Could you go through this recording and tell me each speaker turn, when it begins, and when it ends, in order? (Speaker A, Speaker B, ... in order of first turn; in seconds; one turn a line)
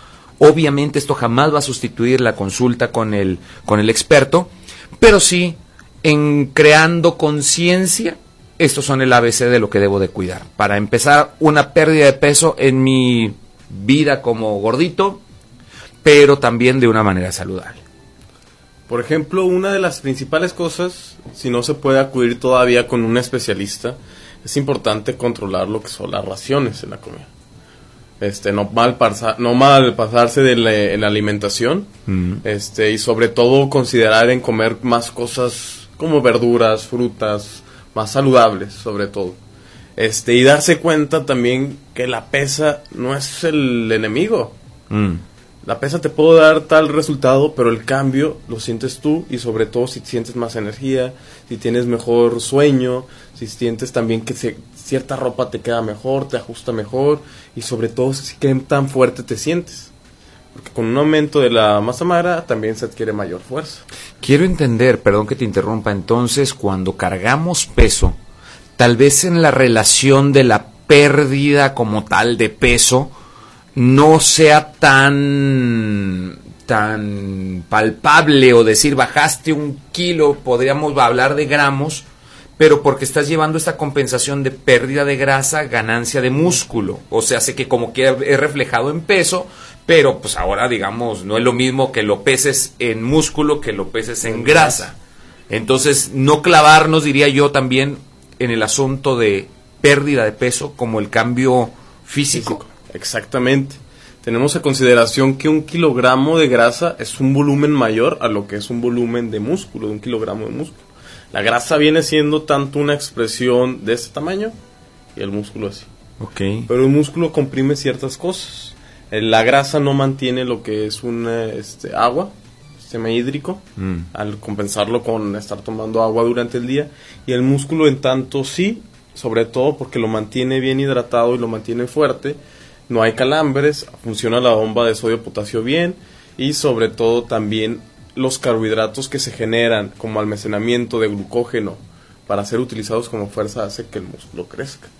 Speaker A: 0.4-15.2
Speaker A: 16.0-17.8
Speaker B: 18.9-27.3
Speaker B: 28.2-31.9
Speaker A: 32.1-32.4
Speaker B: 32.4-39.4
Speaker B: 40.0-44.5
Speaker A: 44.9-45.2
Speaker B: 45.6-59.9
Speaker B: 60.5-63.8
Speaker A: 64.2-68.2
Speaker A: 68.8-73.1
Speaker A: 73.8-82.0
Speaker A: 82.6-95.0
Speaker B: 94.2-94.8
Speaker A: 95.5-102.6
Speaker B: 102.3-110.8
Speaker B: 111.3-114.5
Speaker B: 115.1-115.9
Speaker A: 116.2-116.7
Speaker B: 116.7-144.9
Speaker A: 123.8-124.1